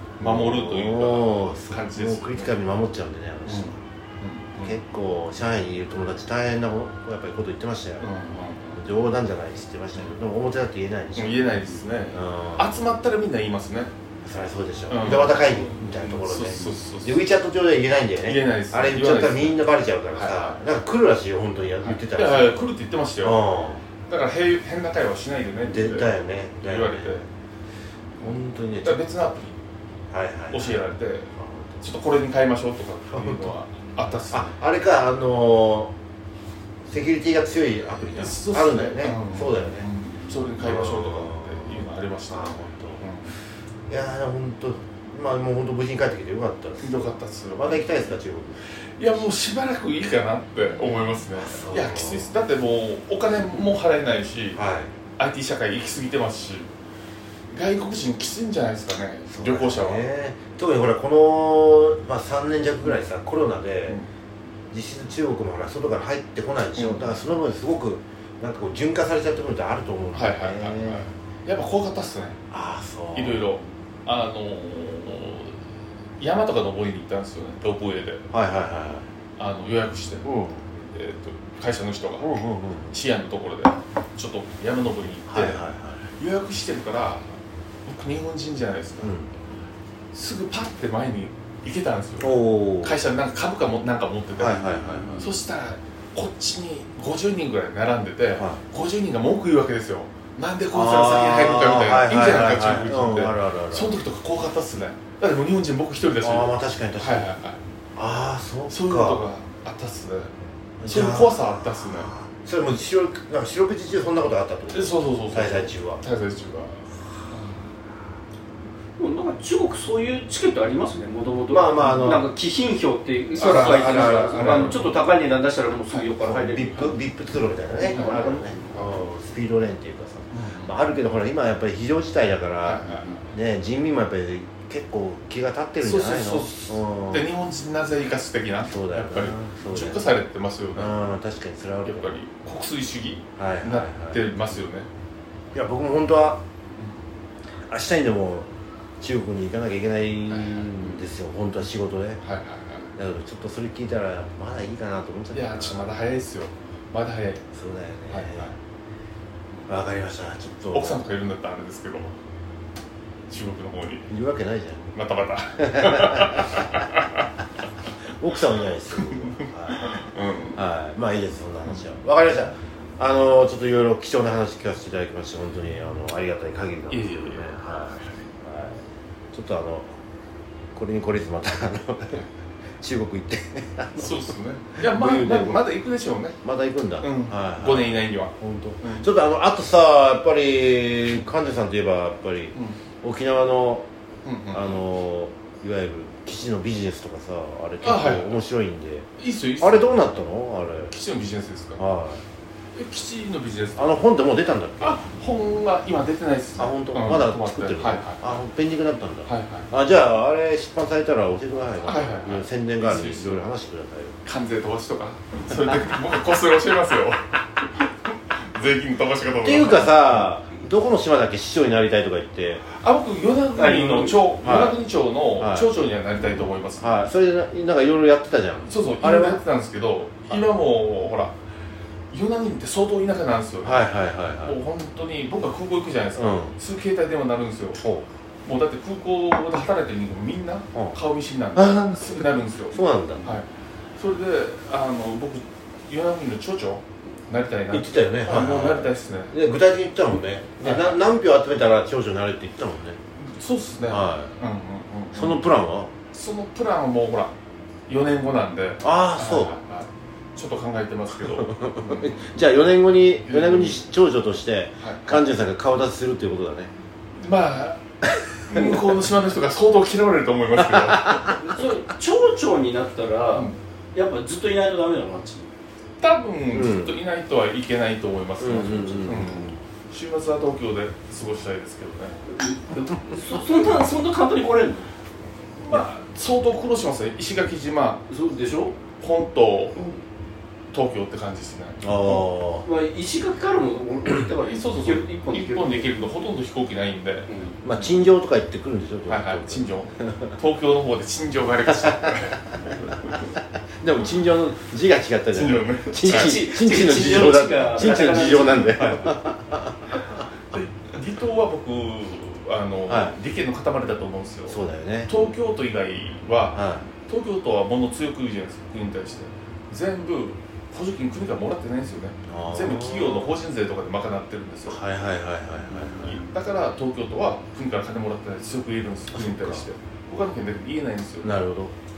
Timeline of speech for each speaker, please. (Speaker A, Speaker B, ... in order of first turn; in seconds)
Speaker A: 0.2-2.5, 3.5-4.8, 8.0-8.8, 11.2-13.9, 14.9-17.2, 18.2-19.6, 20.1-20.6, 21.8-23.4, 24.1-27.2, 28.2-29.6, 30.5-31.3, 31.8-34.5, 38.0-43.3, 46.8-47.9, 49.0-54.6, 55.2-56.7, 57.5-60.0, 66.7-67.2, 70.1-72.4, 73.1-75.6, 76.2-78.2, 79.4-80.2, 80.9-82.3, 82.9-85.6, 86.2-87.3, 87.8-89.1, 90.1-107.6, 108.7-110.3, 110.8-112.1, 114.7-117.5, 123.3-125.0, 125.9-126.9, 127.8-129.1, 130.3-130.7, 132.6-133.2, 135.8-140.9, 141.8-144.9, 150.3-151.0, 152.2-152.9, 155.3-157.4, 158.1-158.5, 160.7-162.1, 163.3-164.1, 164.9-167.3, 169.0-170.6, 176.9-177.5, 184.0-186.4, 187.0-189.1, 194.2-194.8, 197.8-198.4, 199.2-200.0, 200.9-201.8, 202.7-204.0, 204.8-208.4, 209.3-209.7, 211.8-213.4, 214.2-220.3, 222.7-227.1, 228.7-231.3, 232.1-233.9, 234.4-237.8, 238.4-249.3, 250.6-251.0, 253.2-255.5, 256.1-257.3, 257.9-262.2, 263.3-263.8, 264.8-265.2, 267.2-267.8, 268.5-271.4, 276.0-282.2, 285.6-288.0, 289.0-289.8, 290.7-292.2, 294.3-297.3, 299.1-303.3, 305.3-309.2, 309.9-324.8, 325.8-331.3
Speaker B: 0.2-3.8, 4.6-8.1, 8.7-11.4, 12.1-12.7, 14.2-22.6, 23.2-23.8, 25.6-27.2, 28.2-29.1, 30.1-30.8, 31.4-31.8, 33.1-33.5, 34.3-35.9, 36.9-39.9, 40.6-43.0, 43.9-48.6, 51.4-52.3, 54.5-54.9, 59.3-64.0, 64.7-71.1, 72.5-73.6, 78.3-79.0, 80.2-80.6, 82.2-82.9, 85.3-86.0, 89.0-89.3, 92.2-93.0, 94.4-95.3, 98.3-98.6, 100.7-103.9, 106.2-107.3, 108.0-109.2, 110.8-116.0, 121.5-122.3, 123.3-124.8, 126.2-137.2, 138.7-140.0, 140.7-142.2, 143.4-144.2, 145.5-146.4, 147.7-148.5, 149.0-152.2, 152.9-155.9, 157.5-158.5, 159.7-161.0, 164.1-164.9, 165.6-166.8, 168.1-170.0, 170.5-179.9, 180.7-182.2, 182.8-185.6, 186.4-193.9, 194.5-199.1, 199.6-200.9, 201.8-202.2, 203.8-205.0, 206.6-214.1, 219.4-222.6, 224.4-224.8, 225.4-225.7, 226.8-229.4, 233.6-234.6, 236.2-236.5, 237.8-238.0, 241.5-243.3, 247.7-253.0, 253.9-254.3, 255.1-255.9, 258.8-259.6, 261.2-266.7, 268.5-268.9, 270.6-271.5, 276.5-277.0, 278.4-279.6, 291.8-292.6, 297.6-300.3, 301.8-302.5, 303.8-310.0, 312.9-313.1, 314.5-315.1, 316.5-316.9, 322.2-323.4, 324.7-326.2, 329.1-329.6, 331.2-331.7
Speaker C: 119.0-127.0, 127.8-128.5, 223.6-224.3, 271.4-275.5, 282.3-284.9, 288.1-288.8, 292.6-296.0, 297.3-297.6, 306.1-308.8